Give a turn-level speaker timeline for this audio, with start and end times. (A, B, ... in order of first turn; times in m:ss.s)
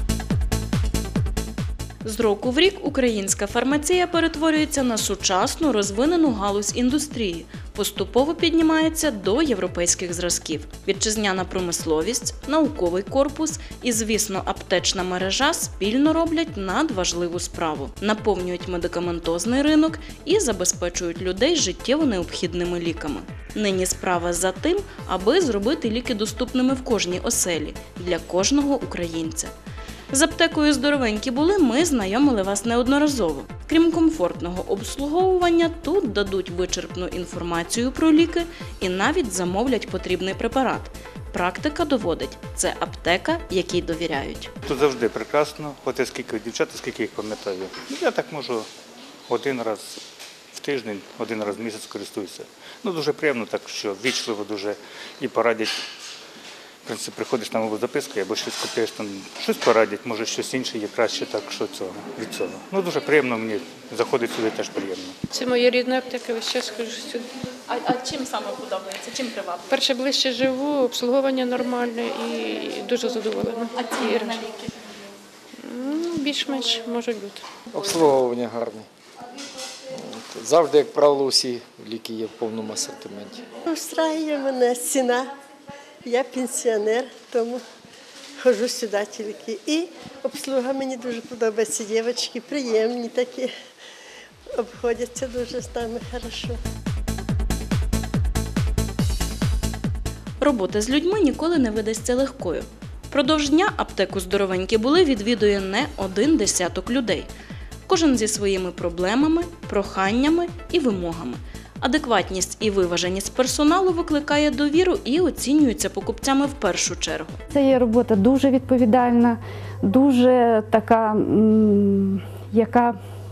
0:02.0-0:29.5 A
0:30.1-0:44.5 A
0:44.6-0:48.7 B
0:49.3-0:50.0 B
0:50.5-0:55.8 B
0:56.8-1:05.2 B
1:05.3-1:07.2 C
1:07.7-1:09.7 A
1:09.7-1:14.5 C
1:15.6-1:17.4 C
1:17.7-1:18.8 D
1:20.3-1:23.4 D
1:23.7-1:25.2 E
1:26.0-1:27.6 E
1:28.4-1:33.5 E
1:34.6-1:36.5 E
1:40.4-1:47.3 A
1:47.9-1:57.4 A
1:57.5-2:02.9 F